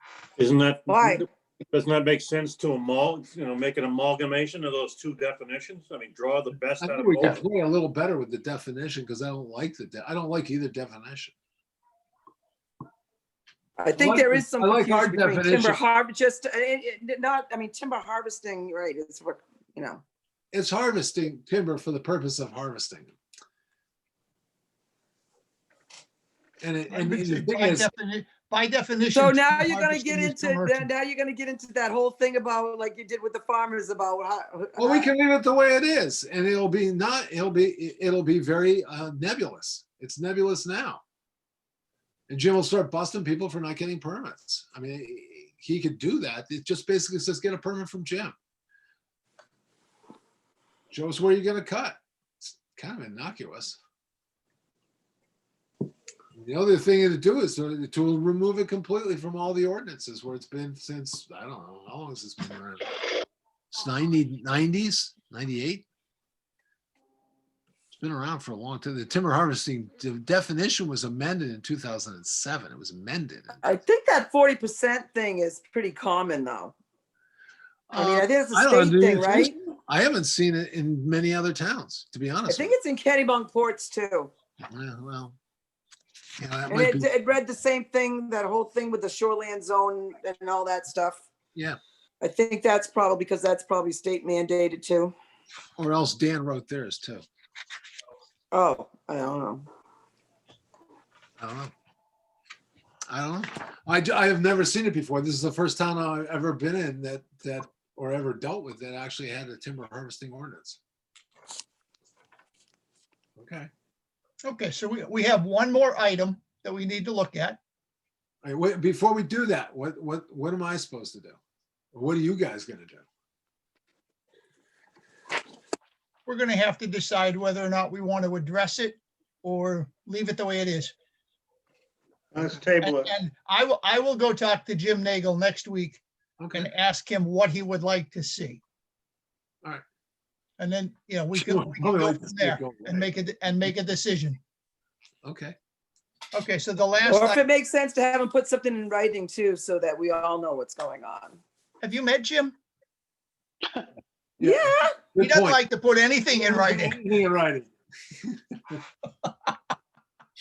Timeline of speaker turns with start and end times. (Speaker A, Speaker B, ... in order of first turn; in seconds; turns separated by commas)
Speaker A: 0.4-7.4, Speaker B: 0.9-1.2, Speaker C: 6.8-11.3, Speaker B: 13.8-20.0, Speaker C: 13.9-15.8, Speaker C: 20.5-23.1, Speaker C: 26.6-27.9, Speaker D: 26.9-30.9, Speaker B: 29.1-35.1, Speaker C: 34.8-41.0, Speaker C: 42.3-48.4, Speaker C: 50.9-53.8, Speaker C: 56.4-63.2, Speaker C: 63.7-65.8, Speaker C: 67.9-73.6, Speaker B: 73.6-76.8, Speaker C: 77.9-82.8, Speaker B: 78.0-79.6, Speaker B: 82.5-84.3, Speaker C: 84.7-85.4, Speaker C: 86.4-87.1, Speaker B: 86.7-91.2, Speaker B: 92.2-95.1, Speaker C: 95.8-97.2, Speaker B: 98.5-99.7, Speaker C: 101.4-101.7, Speaker C: 103.1-110.8, Speaker C: 113.4-113.7, Speaker D: 114.4-117.6, Speaker C: 118.4-121.4, Speaker C: 121.9-123.0, Speaker D: 126.3-130.9, Speaker A: 132.3-133.1, Speaker D: 132.8-136.0, Speaker C: 136.4-136.7, Speaker D: 136.5-138.6, Speaker D: 140.6-144.4, Speaker C: 141.3-143.1, Speaker C: 145.2-145.6, Speaker D: 146.3-147.4, Speaker B: 147.1-151.4, Speaker D: 151.8-152.6, Speaker B: 154.4-155.0, Speaker C: 154.4-155.6, Speaker D: 155.2-157.0, Speaker C: 156.3-158.8